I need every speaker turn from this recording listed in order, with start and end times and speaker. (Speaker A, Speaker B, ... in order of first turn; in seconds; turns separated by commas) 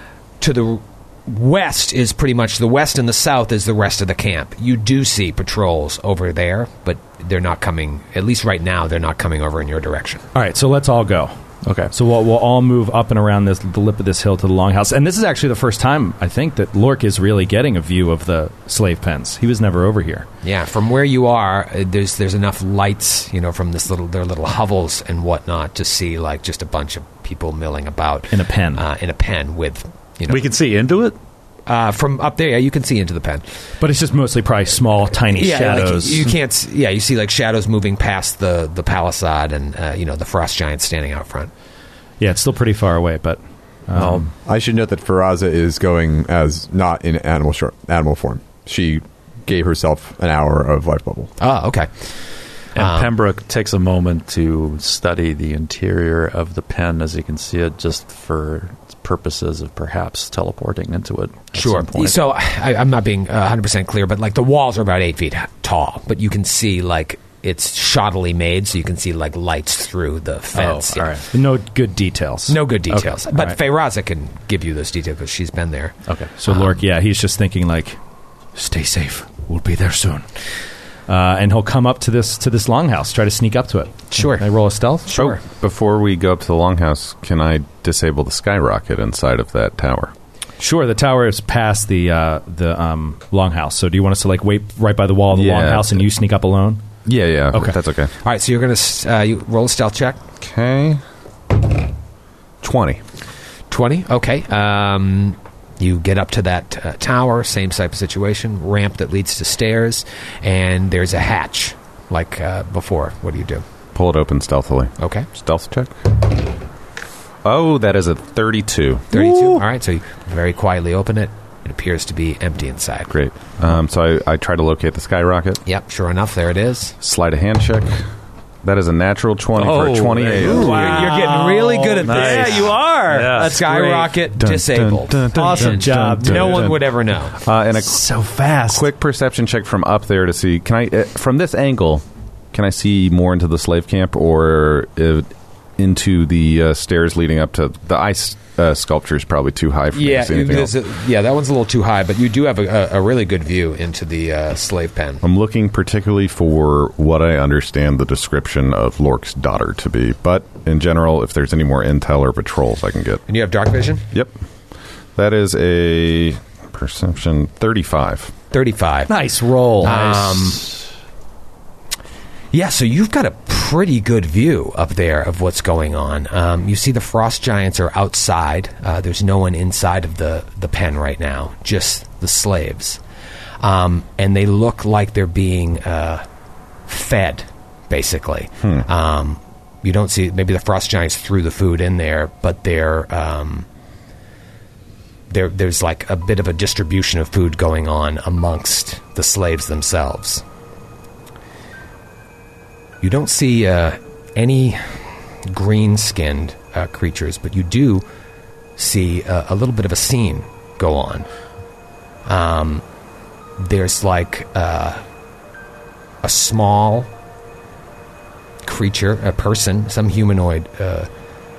Speaker A: 0.4-10.2, Speaker B: 10.3-11.3, Speaker C: 11.6-11.9, Speaker B: 11.9-20.3, Speaker A: 20.4-30.4, Speaker B: 28.3-28.8, Speaker C: 30.3-31.2, Speaker A: 31.7-33.5, Speaker B: 33.8-36.3, Speaker A: 35.3-41.5, Speaker B: 42.2-44.3, Speaker C: 43.9-44.3, Speaker D: 44.4-51.3, Speaker A: 51.4-52.1, Speaker C: 52.8-62.2, Speaker A: 52.8-53.1, Speaker A: 61.5-71.1, Speaker C: 70.6-71.3, Speaker B: 71.3-72.6, Speaker A: 72.5-76.8, Speaker B: 73.3-73.6, Speaker B: 76.4-78.0, Speaker B: 78.5-80.3, Speaker B: 81.1-85.1, Speaker A: 84.1-84.5, Speaker A: 85.0-85.4, Speaker E: 85.1-90.1, Speaker B: 90.6-96.8, Speaker E: 95.3-96.0, Speaker E: 97.0-98.1, Speaker A: 98.2-100.2, Speaker E: 100.4-101.0, Speaker E: 102.6-103.0, Speaker A: 103.7-113.7, Speaker E: 113.9-116.1, Speaker A: 115.0-115.3, Speaker E: 117.4-119.1, Speaker A: 119.1-123.1, Speaker E: 123.1-125.6, Speaker A: 125.7-127.0, Speaker E: 127.0-128.1, Speaker E: 128.6-130.8, Speaker C: 129.6-131.4, Speaker A: 130.4-137.3, Speaker B: 130.5-134.1, Speaker C: 132.0-133.6, Speaker E: 134.4-136.8, Speaker B: 135.3-136.8, Speaker E: 137.4-138.1, Speaker B: 137.8-138.9, Speaker E: 138.7-150.7, Speaker A: 149.9-155.2, Speaker E: 155.2-163.2, Speaker A: 163.3-164.0, Speaker E: 165.2-168.3, Speaker A: 168.5-169.2, Speaker B: 169.1-170.7, Speaker A: 169.8-170.7, Speaker A: 172.5-183.0, Speaker A: 183.6-186.2, Speaker A: 186.9-193.7, Speaker A: 195.3-200.4, Speaker A: 203.0-208.1, Speaker A: 208.8-211.3, Speaker A: 212.3-212.8, Speaker A: 213.6-215.0, Speaker A: 216.2-217.1, Speaker A: 218.7-221.1